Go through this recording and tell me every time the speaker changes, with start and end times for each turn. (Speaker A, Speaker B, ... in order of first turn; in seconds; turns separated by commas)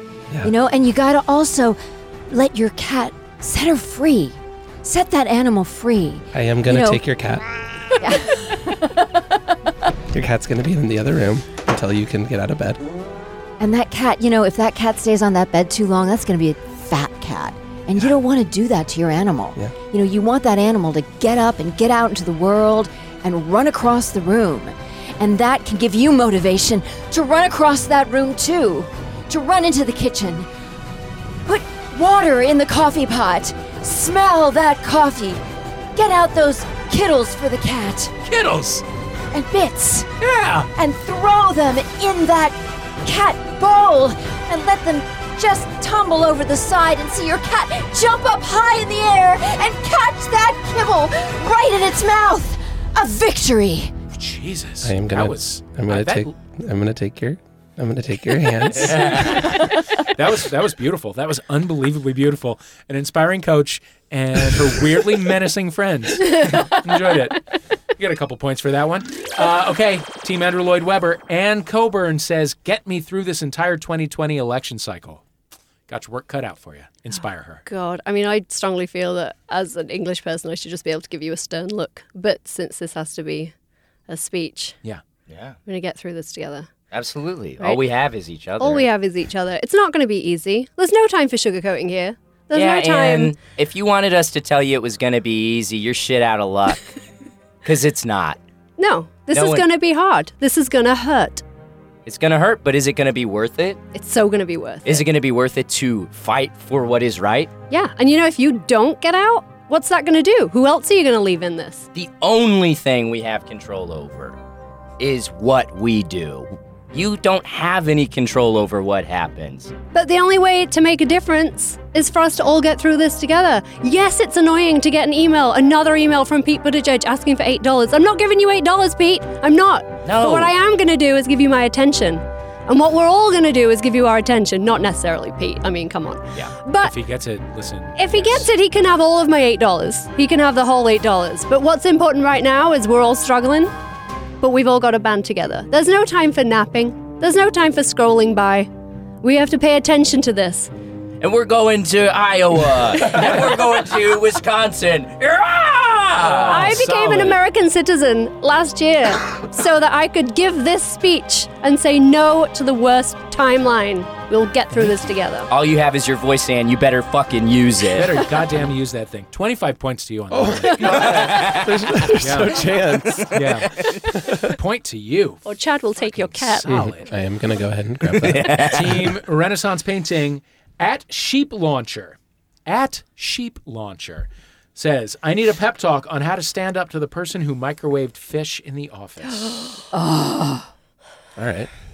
Speaker A: 0.4-1.8, Speaker A: 2.3-7.0, Speaker B: 6.3-7.5, Speaker A: 8.0-9.2, Speaker B: 10.1-12.8, Speaker A: 13.6-30.5, Speaker A: 31.5-35.4, Speaker A: 36.0-38.1, Speaker C: 38.2-38.8, Speaker A: 39.3-40.1, Speaker C: 40.2-40.7, Speaker A: 40.8-53.9, Speaker C: 54.1-56.3, Speaker B: 54.8-59.5, Speaker C: 58.8-67.4, Speaker C: 68.0-75.2, Speaker C: 75.9-77.7, Speaker D: 77.7-83.5, Speaker D: 84.1-84.8, Speaker E: 85.3-85.6, Speaker D: 85.7-86.7, Speaker E: 86.9-88.9, Speaker D: 88.6-93.4, Speaker E: 92.5-96.9, Speaker E: 97.6-98.4, Speaker D: 98.8-101.4, Speaker E: 99.3-99.7, Speaker E: 102.1-103.8, Speaker D: 103.9-105.1, Speaker E: 104.8-107.5, Speaker D: 107.7-111.9, Speaker E: 111.9-114.4, Speaker E: 115.0-119.7, Speaker D: 119.9-136.9, Speaker E: 130.1-130.5, Speaker C: 136.8-138.5, Speaker D: 138.0-143.7, Speaker D: 144.4-148.7, Speaker D: 149.2-150.7, Speaker E: 151.2-156.9, Speaker C: 156.1-157.4, Speaker D: 156.5-165.5, Speaker C: 164.8-165.1, Speaker E: 165.5-168.2, Speaker C: 167.9-171.5, Speaker B: 170.3-173.4, Speaker E: 171.1-172.1, Speaker C: 172.1-172.7, Speaker C: 173.3-175.4, Speaker D: 175.4-176.7, Speaker C: 176.0-177.1, Speaker B: 176.7-178.9, Speaker E: 178.1-178.9, Speaker C: 178.7-189.5, Speaker A: 189.9-190.7, Speaker B: 191.4-191.7